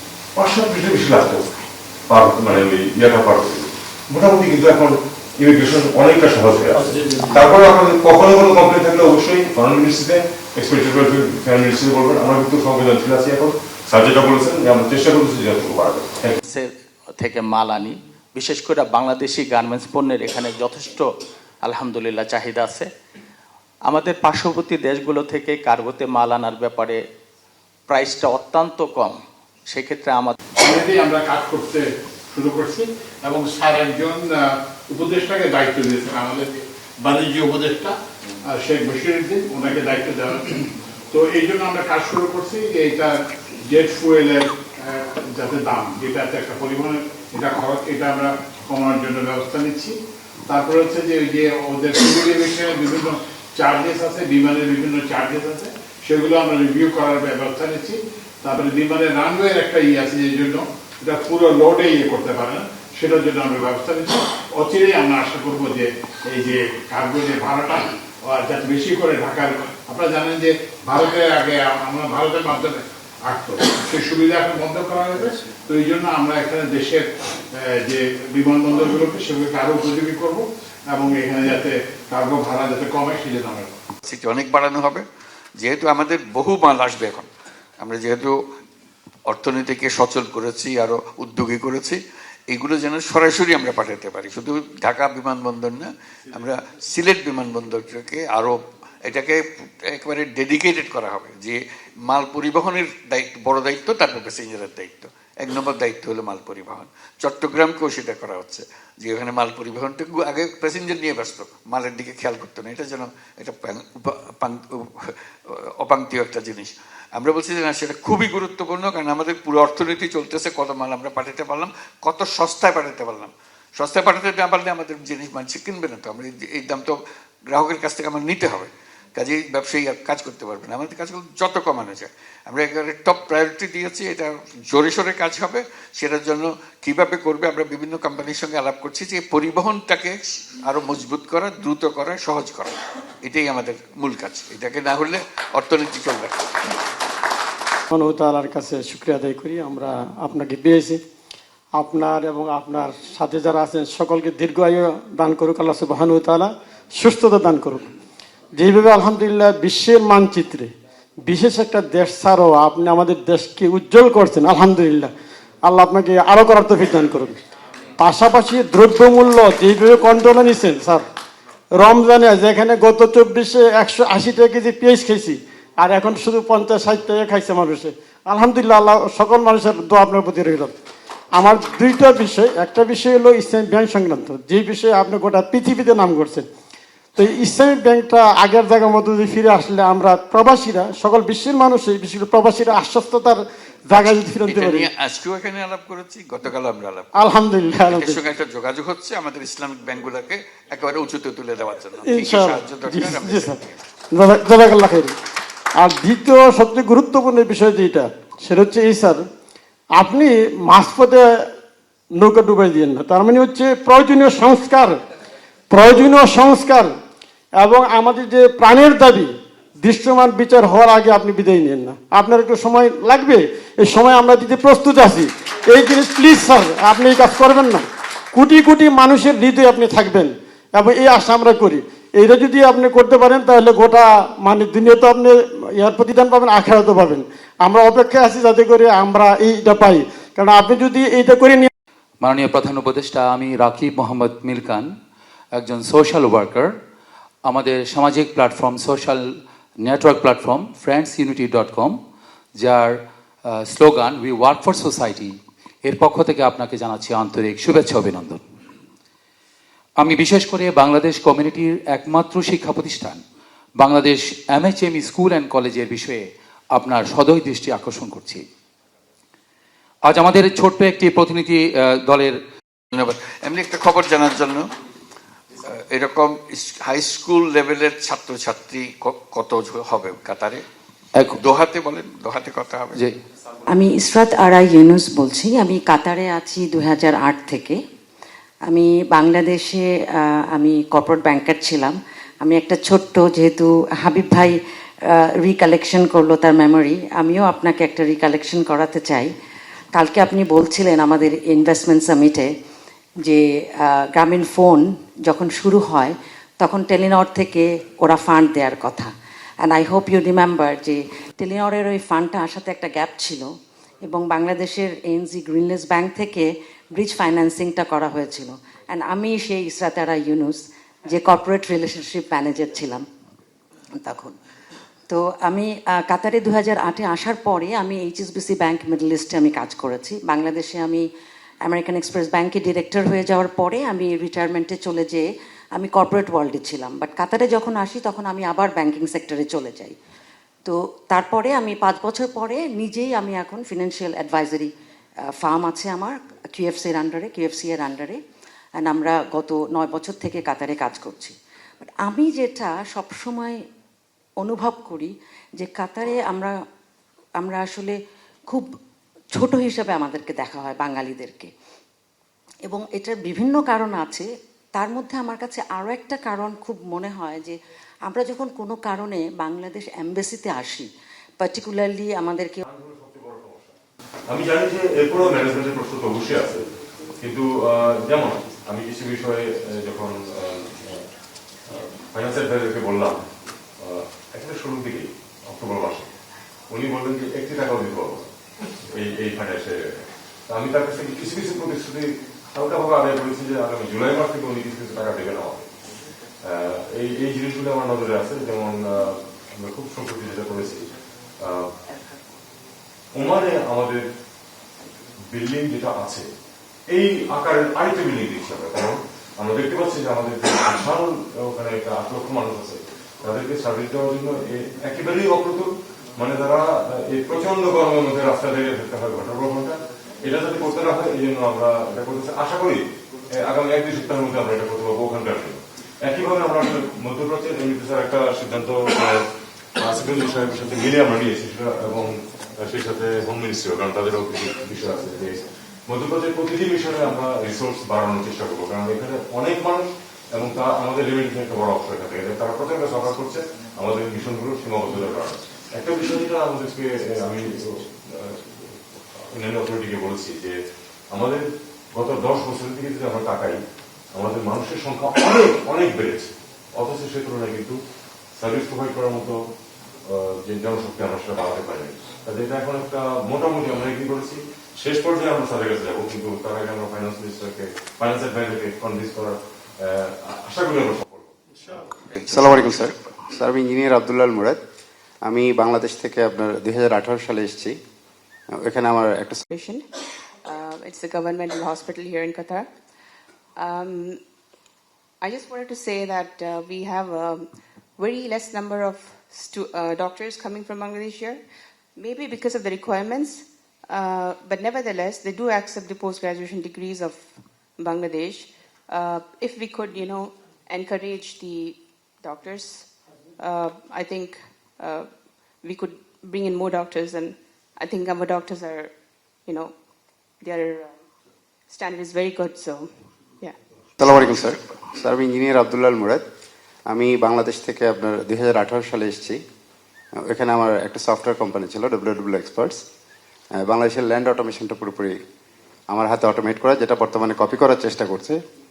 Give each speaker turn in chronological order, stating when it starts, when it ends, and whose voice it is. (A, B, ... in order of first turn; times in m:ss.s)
0:00.3-0:16.4 A
0:16.4-0:21.1 B
0:21.6-0:22.9 B
0:23.9-0:27.0 B
0:27.9-0:29.2 B
0:29.7-0:30.4 B
0:30.6-0:37.9 C
0:38.5-0:40.6 C
0:41.1-0:50.0 C
0:50.5-1:23.7 C
1:24.0-1:25.0 D
1:25.6-1:27.3 D
1:27.8-1:28.4 D
1:29.3-2:26.5 D
2:27.9-2:31.0 E
2:31.8-2:37.8 E
2:38.6-2:40.7 E
2:41.2-2:45.1 E
2:45.6-2:47.4 E
2:48.0-2:51.0 E
2:51.8-3:00.7 E
3:01.3-3:06.4 E
3:07.2-3:14.9 E
3:13.9-3:17.1 D
3:17.2-3:18.2 E
3:17.9-3:23.8 D
3:22.0-3:23.6 E
3:24.1-3:25.1 E
3:25.8-3:29.2 E
3:30.0-3:31.2 E
3:32.2-3:35.0 E
3:35.7-3:36.9 E
3:37.6-4:01.7 E
4:02.2-4:04.9 F
4:05.6-4:06.8 F
4:07.4-4:12.0 F
4:12.6-4:18.4 F
4:20.0-4:23.2 F
4:23.8-4:28.4 F
4:30.1-4:32.4 F
4:32.9-4:34.7 D
4:35.6-4:40.6 D
4:41.3-4:43.0 D
4:43.7-4:47.8 G
4:48.7-4:54.5 G
4:55.4-4:59.3 G
5:00.0-5:02.5 G
5:03.2-5:09.1 G
5:09.6-5:13.4 G
5:14.1-5:16.4 G
5:17.0-5:23.0 G
5:24.0-5:24.3 G
5:25.1-5:31.0 G
5:31.7-5:40.0 G
5:40.6-5:44.7 G
5:45.4-5:48.2 G
5:48.8-5:53.6 G
5:54.4-5:56.5 G
5:57.4-5:57.9 G
5:59.4-6:01.5 G
6:02.6-6:07.6 G
6:08.1-6:10.9 G
6:11.4-6:12.6 G
6:12.6-6:13.8 A
6:14.3-6:16.6 A
6:17.2-6:21.0 A
6:21.6-6:23.3 A
6:23.8-6:26.1 A
6:26.7-6:28.3 A
6:28.9-6:35.7 A
6:36.4-6:41.7 A
6:43.1-6:44.0 A
6:45.3-6:46.3 A
6:46.9-7:30.5 A
7:31.1-7:33.6 A
7:34.1-7:37.8 A
7:38.4-7:39.4 A
7:40.0-7:51.3 A
7:52.1-7:52.9 D
7:52.2-7:54.6 H
7:55.2-7:57.8 H
7:58.6-7:59.4 H
7:59.5-7:59.8 I
8:00.4-8:02.7 I
8:03.6-8:04.2 I
8:05.2-8:11.4 I
8:12.0-8:17.2 I
8:17.8-8:22.9 I
8:23.4-8:25.1 I
8:25.6-8:28.9 I
8:29.4-8:29.7 I
8:30.4-8:30.9 I
8:31.7-8:32.9 I
8:34.0-8:36.2 H
8:34.1-8:34.5 D
8:36.9-8:39.4 H
8:40.3-8:42.8 H
8:43.6-8:45.1 H
8:45.9-8:48.4 H